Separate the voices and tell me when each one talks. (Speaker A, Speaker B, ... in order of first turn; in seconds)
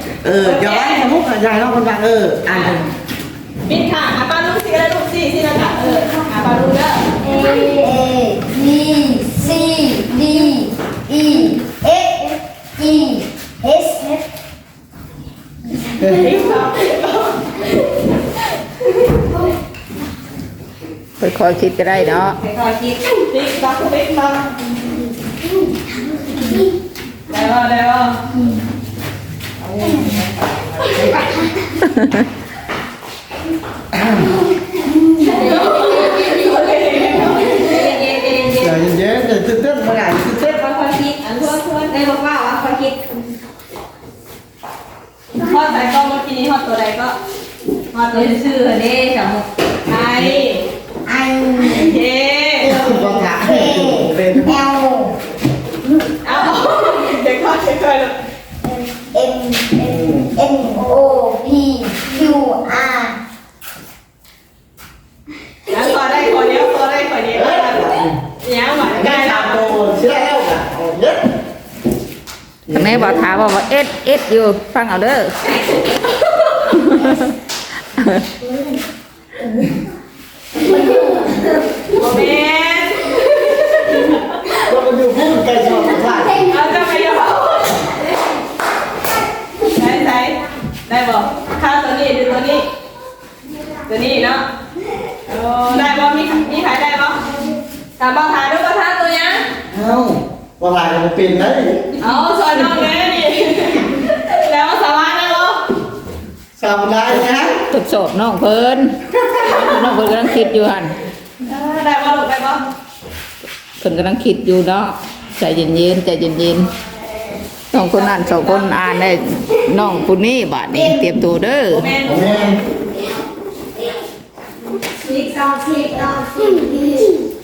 Speaker A: 0.2-2.8, 33.9-34.3, 38.6-40.6, 52.6-54.6, 59.8-60.3, 67.3-68.1, 68.9-71.2, 72.7-73.3, 84.5-86.5, 99.7-101.8, 106.6-107.5, 121.9-122.6
Speaker B: 0.4-1.1, 2.5-2.8, 3.6-7.1, 15.9-18.1, 23.1-24.5, 27.3-28.2, 35.2-37.8, 41.4-41.9, 45.4-47.1, 49.9-50.6, 51.6-52.9, 56.2-58.1, 65.7-69.7, 81.9-84.5, 86.5-87.9, 89.6-92.7, 93.9-94.4, 95.2-97.2, 98.0-99.4, 102.0-105.6, 111.4-112.6, 117.7-118.8, 121.7-122.4
Speaker C: 7.3-14.2, 51.0-51.7, 52.9-55.1, 59.0-63.1
Speaker D: 21.2-22.4, 31.8-32.2, 72.7-75.3, 76.7-77.3, 78.0-78.2, 107.7-111.0, 113.8-116.7, 117.7-121.9
Speaker E: 22.3-23.0, 29.7-30.2, 35.2-35.7, 37.4-38.8, 40.4-43.0, 47.9-49.5, 125.0-127.1